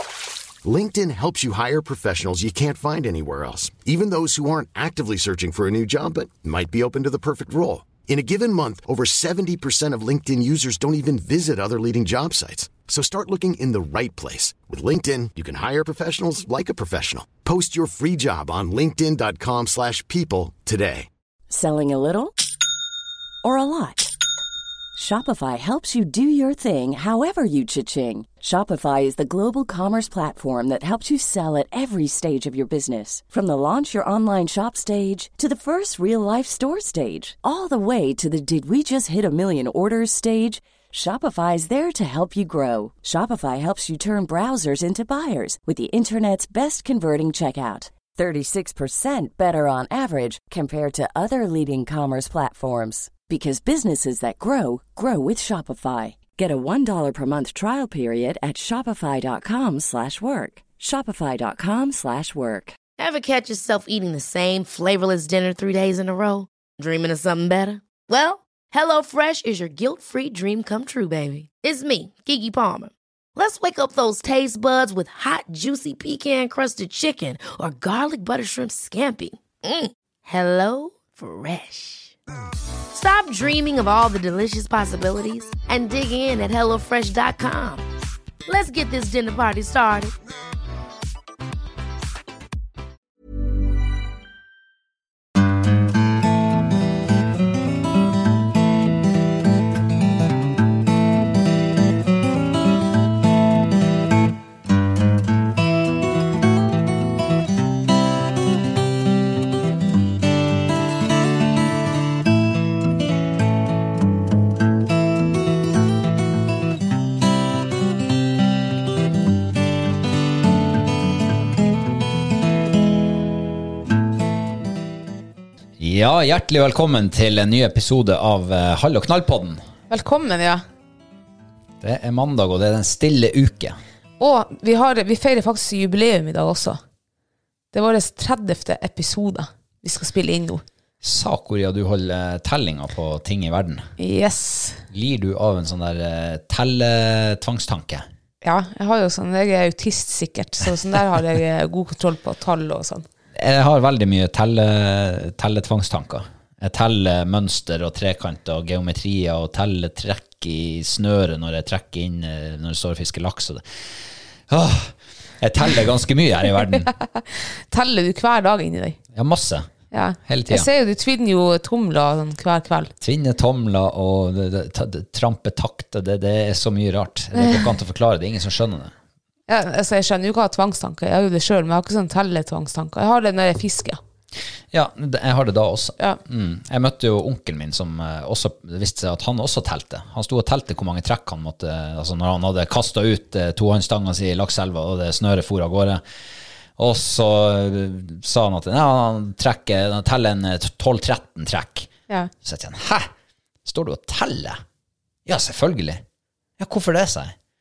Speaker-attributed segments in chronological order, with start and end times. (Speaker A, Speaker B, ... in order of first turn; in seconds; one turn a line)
Speaker A: 0.6-21.1
Speaker B: 21.5-22.4
Speaker B: 23.4-24.1
Speaker B: 24.9-62.8
Speaker C: 63.0-82.1
Speaker C: 82.9-87.8
Speaker C: 88.5-90.1
Speaker D: 125.8-129.6
Speaker E: 129.9-130.6
Speaker D: 131.8-133.8
Speaker E: 134.2-136.8
Speaker E: 137.7-140.6
Speaker D: 141.0-143.9
Speaker E: 144.0-144.8
Speaker D: 144.9-148.1
Speaker E: 148.4-153.1
Speaker D: 153.4-163.6
Speaker D: 164.5-166.9
Speaker E: 166.9-169.0
Speaker D: 169.1-169.7
Speaker E: 169.9-172.9
Speaker D: 170.2-170.7
Speaker D: 173.0-178.9
Speaker E: 177.4-177.6
Speaker E: 179.5-184.0
Speaker D: 184.7-196.0
Speaker D: 196.8-201.9
Speaker D: 202.4-203.1
Speaker D: 203.7-204.6
Speaker D: 205.3-206.0
Speaker D: 206.6-207.4